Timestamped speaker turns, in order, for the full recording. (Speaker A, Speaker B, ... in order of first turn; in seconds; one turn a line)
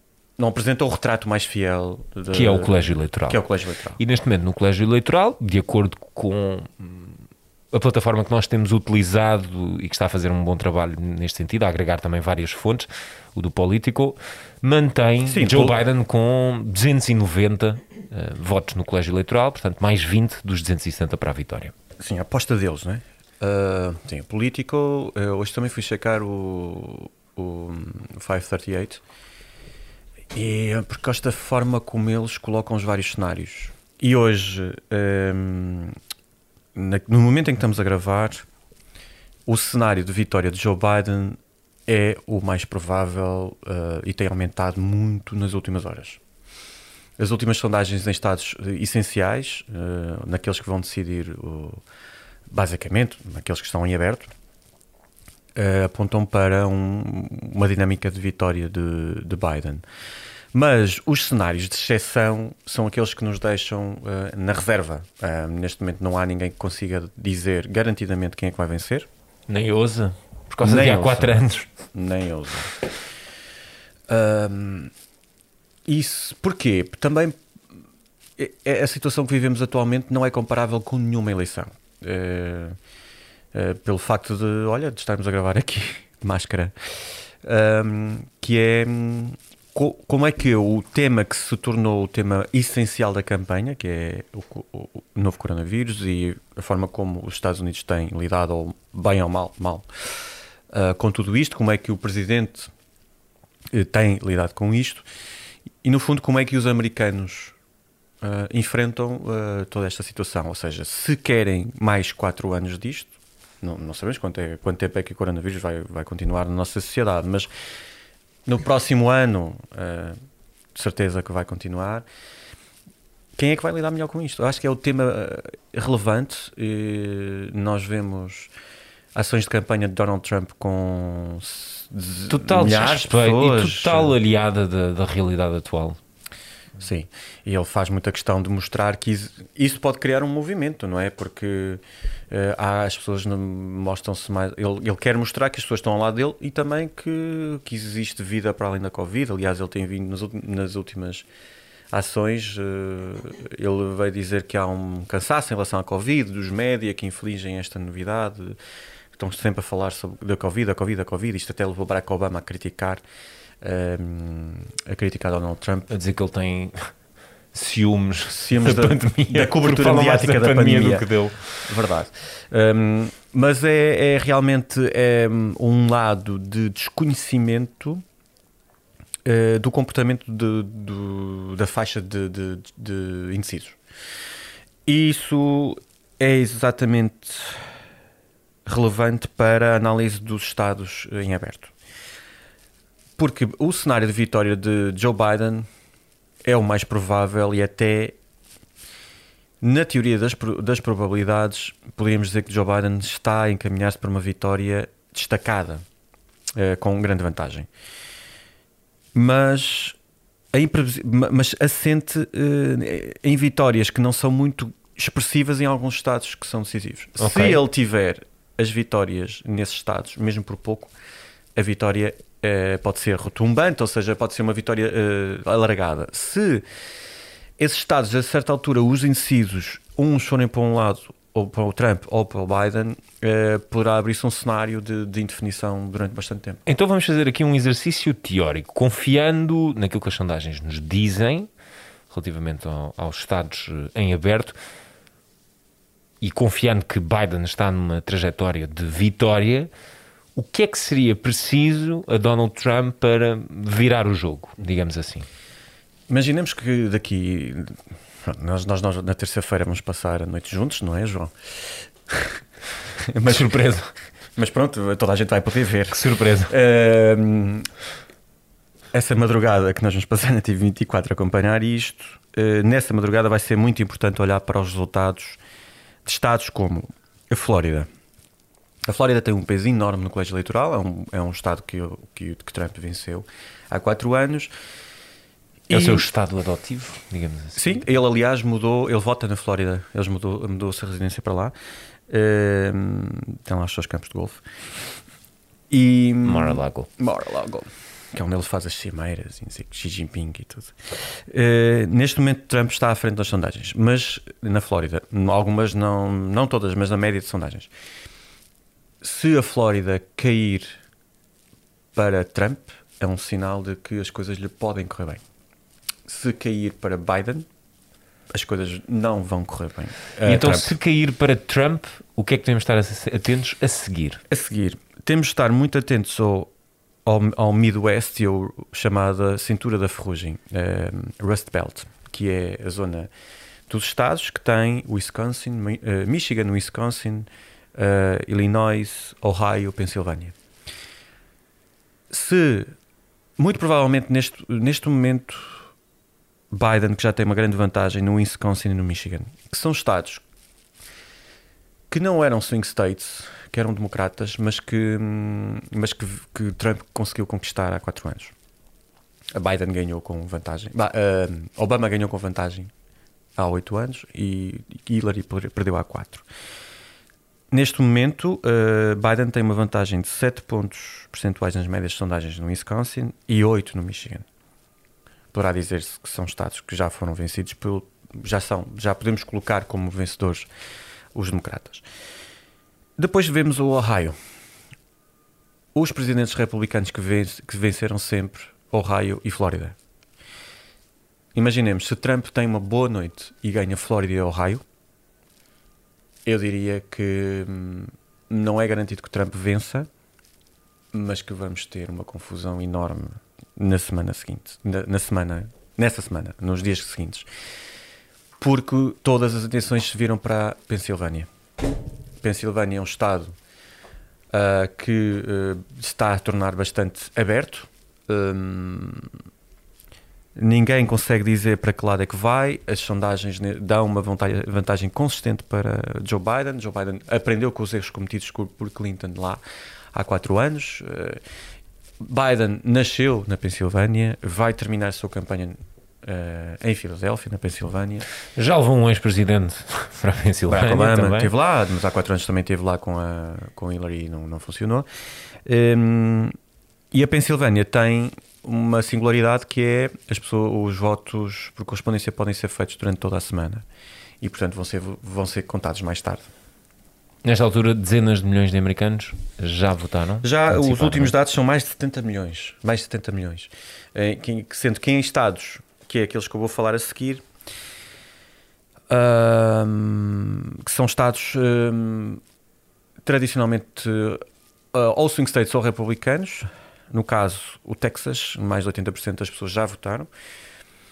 Speaker A: 0.4-4.0
Speaker B: 2.3-3.4
Speaker B: 4.0-21.7
Speaker A: 15.2-15.8
Speaker A: 22.0-29.0
Speaker A: 30.3-36.0
Speaker A: 36.7-38.5
Speaker A: 39.5-46.2
Speaker A: 47.2-51.8
Speaker A: 52.5-54.3
Speaker A: 55.5-59.8
Speaker A: 60.5-69.1
Speaker B: 69.5-71.7
Speaker A: 70.6-72.7
Speaker A: 74.1-74.9
Speaker A: 75.8-77.4
Speaker A: 78.4-82.8
Speaker A: 83.5-102.7
Speaker A: 103.7-105.0
Speaker A: 105.8-107.5
Speaker A: 108.2-117.5
Speaker A: 118.5-120.2
Speaker A: 120.7-122.0
Speaker A: 123.3-128.5
Speaker A: 129.1-134.1
Speaker B: 132.3-136.0
Speaker A: 136.8-151.2
Speaker A: 151.9-158.6
Speaker A: 159.1-163.0
Speaker A: 163.6-165.9
Speaker B: 165.9-166.9
Speaker B: 167.5-171.7
Speaker A: 168.3-178.0
Speaker A: 179.2-183.8
Speaker A: 184.8-187.7
Speaker A: 188.7-191.7
Speaker A: 193.2-195.7
Speaker A: 196.4-198.2
Speaker A: 199.6-205.8
Speaker A: 206.6-207.7
Speaker A: 209.1-209.9
Speaker A: 210.5-220.9
Speaker B: 217.2-217.6
Speaker A: 221.5-226.6
Speaker A: 227.6-236.6
Speaker B: 236.7-241.5
Speaker B: 242.1-244.6
Speaker B: 246.2-249.7
Speaker B: 250.3-255.2
Speaker A: 256.1-262.4
Speaker A: 263.1-263.8
Speaker B: 263.2-263.9
Speaker A: 264.4-267.7
Speaker B: 265.9-266.5
Speaker A: 268.9-275.4
Speaker A: 276.0-277.9
Speaker A: 278.9-284.5
Speaker A: 285.7-286.0
Speaker B: 285.7-287.8
Speaker A: 287.6-291.5
Speaker A: 292.1-294.4
Speaker A: 295.7-307.7
Speaker B: 296.2-296.9
Speaker A: 309.0-310.8
Speaker A: 311.9-315.2
Speaker A: 316.1-317.5
Speaker A: 318.3-320.8
Speaker B: 320.2-324.2
Speaker A: 324.3-326.5
Speaker A: 327.0-333.1
Speaker A: 333.7-340.3
Speaker A: 342.1-342.7
Speaker A: 343.4-345.6
Speaker A: 346.5-350.2
Speaker A: 351.9-358.3
Speaker A: 359.3-362.7
Speaker A: 363.4-366.2
Speaker A: 367.5-374.3
Speaker A: 375.3-380.5
Speaker A: 381.1-381.8
Speaker A: 383.0-384.2
Speaker A: 385.7-389.8
Speaker A: 391.3-394.6
Speaker A: 396.2-399.9
Speaker A: 400.9-407.3
Speaker A: 408.4-411.3
Speaker A: 412.2-413.3
Speaker A: 414.3-419.1
Speaker A: 420.4-429.4
Speaker A: 429.9-431.2
Speaker A: 432.0-438.1
Speaker B: 438.4-441.3
Speaker A: 440.5-444.9
Speaker A: 445.4-446.3
Speaker A: 446.9-453.6
Speaker A: 454.2-456.3
Speaker B: 457.2-461.1
Speaker A: 460.2-467.2
Speaker A: 468.9-472.2
Speaker A: 473.0-480.1